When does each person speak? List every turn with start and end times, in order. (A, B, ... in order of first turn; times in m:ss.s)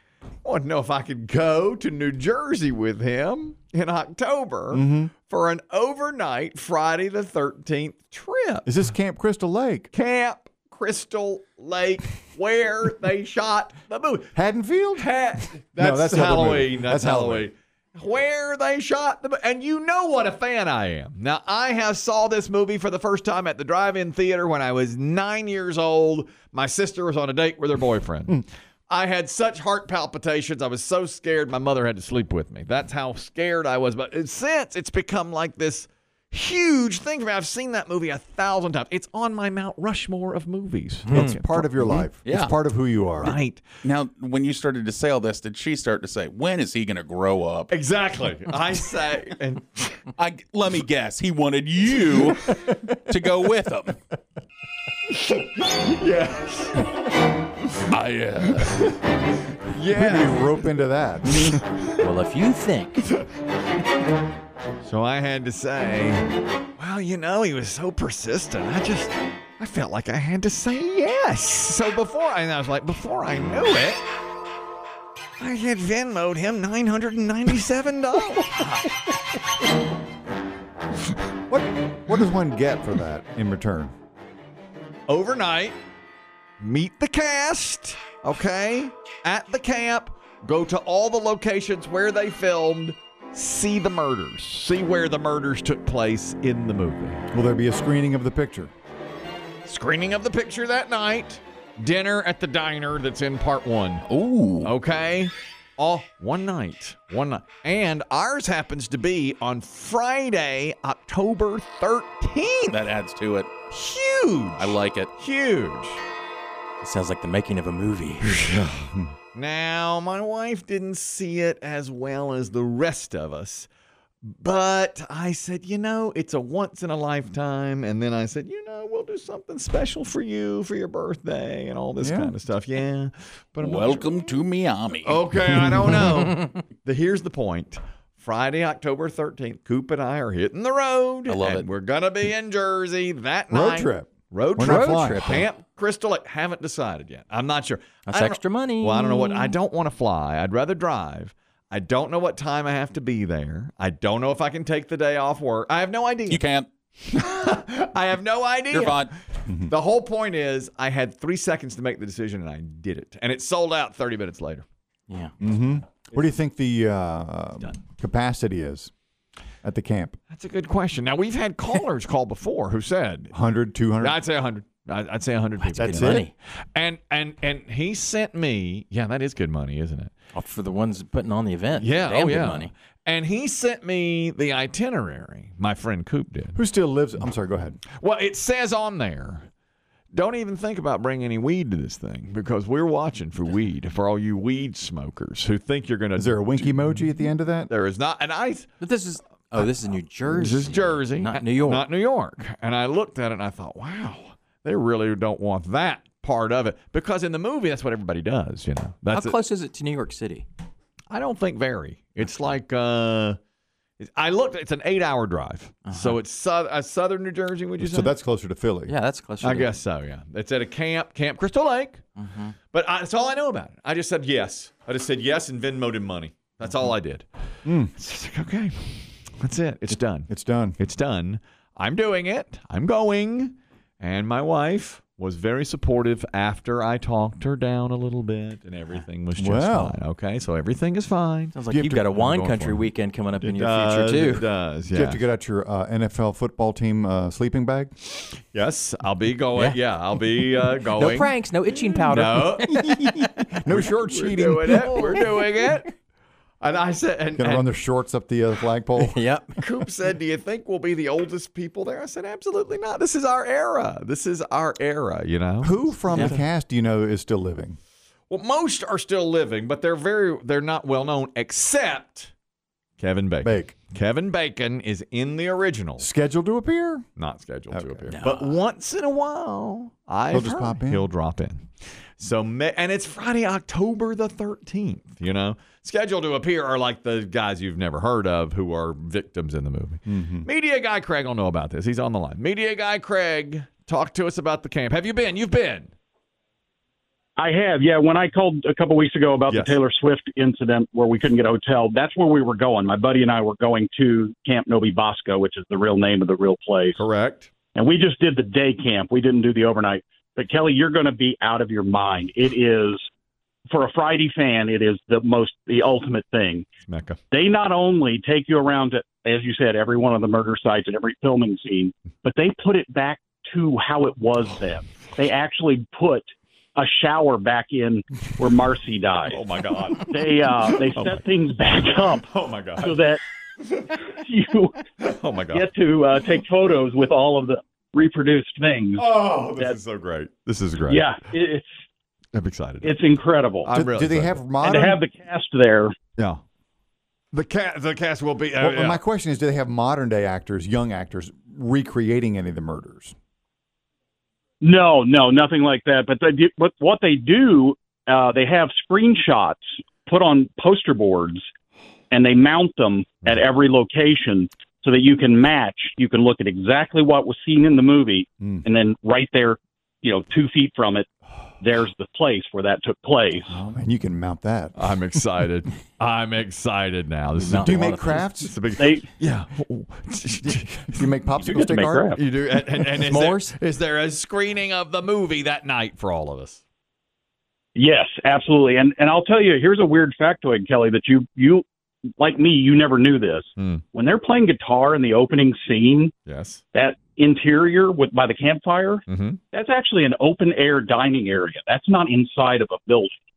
0:00.4-0:08.7 A
0:04.7-0:05.1 B
0:08.7-0:09.9 B
0:09.9-0:14.4 A
0:14.4-0:17.5 B
0:15.0-0:42.0 A
0:41.1-0:41.4 C
0:41.1-0:43.4 B
0:42.2-0:42.6 D
0:43.2-0:43.6 A
0:43.8-0:47.7 D
0:47.7-0:50.1 A
0:50.2-0:54.0 D
0:55.1-0:56.9 A
0:57.9-0:58.9 D
0:58.6-1:00.5 A
0:59.9-1:01.8 B
1:01.4-1:01.9 A
1:02.0-1:03.1 C
1:04.8-1:14.0 A
1:15.4-1:18.8 A
1:21.5-1:23.9 B
1:25.1-1:25.8 A
1:26.6-1:37.2 A
1:37.3-1:38.7 B
1:39.6-1:44.0 A
1:44.1-1:44.7 D
1:44.6-1:52.8 A
1:52.7-1:53.5 D
1:53.7-1:56.0 A
1:54.6-1:55.1 D
1:56.8-1:58.6 C
1:58.3-1:59.1 B
1:59.3-2:03.7 A
2:04.2-2:14.3 A
2:12.0-2:12.3 B
2:13.6-2:15.2 D
2:15.0-2:36.4 A
2:21.3-2:21.7 D
2:23.5-2:25.5 B
2:24.6-2:25.5 C
2:28.1-2:29.6 C
2:36.3-2:36.7 D
2:37.0-2:44.7 A
2:38.7-2:39.1 D
2:45.4-2:48.9 B
2:49.6-2:50.2 B
2:50.3-2:53.3 A
2:53.3-2:54.2 B
2:54.0-3:00.1 A
2:55.6-2:56.3 C
2:55.8-2:56.3 B
3:00.3-3:02.7 C
3:01.8-3:06.6 A
3:06.6-3:07.8 B
3:08.0-3:09.5 A
3:10.1-3:17.1 A
3:16.2-3:17.7 B
3:17.7-3:18.7 A
3:18.8-3:21.8 C
3:20.3-3:29.4 A
3:29.1-3:30.5 C
3:31.1-3:33.4 A
3:34.0-3:38.1 A
3:35.9-3:36.2 C
3:37.8-3:38.9 B
3:38.9-3:39.7 C
3:39.4-3:42.0 A
3:42.2-3:42.5 C
3:42.7-3:47.2 A
3:47.6-3:47.9 B
3:48.0-4:01.6 A
3:50.3-3:50.8 B
3:59.4-4:00.0 B
4:01.5-4:04.5 C
4:01.7-4:02.1 B
4:02.1-4:02.9 A
4:03.4-4:05.2 A
4:04.9-4:07.9 B
4:08.5-4:11.3 A
4:10.9-4:13.4 C
4:12.1-4:12.9 A
4:12.8-4:15.3 B
4:13.7-4:15.9 A
4:14.7-4:15.8 C
4:16.6-4:17.7 A
4:17.4-4:19.2 B
4:19.0-4:19.6 C
4:19.6-4:26.4 A
4:25.6-4:27.8 B
4:28.3-4:32.3 A
4:33.0-4:36.1 A
4:33.4-4:33.7 B
4:36.0-4:37.1 B
4:37.2-4:41.7 A
4:37.7-4:38.1 B
4:38.1-4:38.6 C
4:40.3-4:41.1 B
4:42.2-4:55.9 A
4:50.1-4:50.5 B
4:57.4-5:07.0 E
4:59.5-4:59.8 A
5:07.0-5:07.5 A
5:07.8-5:13.0 E
5:13.7-5:16.7 E
5:16.8-5:17.2 A
5:17.3-5:29.4 E
5:29.3-5:31.2 A
5:30.0-5:33.2 E
5:32.3-5:33.0 A
5:34.2-5:34.8 E
5:35.0-5:35.7 A
5:35.5-5:39.0 E
5:39.0-5:41.1 A
5:40.9-5:41.7 E
5:42.3-5:43.0 A
5:42.8-5:43.7 E
5:43.6-5:44.4 A
5:43.7-5:45.0 B
5:44.6-5:46.0 E
5:47.3-5:49.0 A
5:48.6-5:53.2 B
5:54.6-6:01.4 E
6:02.1-6:11.1 E
6:11.6-6:13.5 E
6:13.5-6:14.7 B
6:14.8-6:21.0 A
6:17.4-6:18.2 C
6:17.6-6:18.6 B
6:18.8-6:19.1 E
6:20.4-6:22.2 B
6:21.4-6:22.2 E
6:22.1-6:26.6 A
6:23.0-6:23.6 C
6:27.8-6:31.6 E
6:32.2-6:36.1 E
6:33.6-6:33.8 A
6:36.3-6:36.6 A
6:36.7-6:43.1 E
6:39.1-6:39.4 A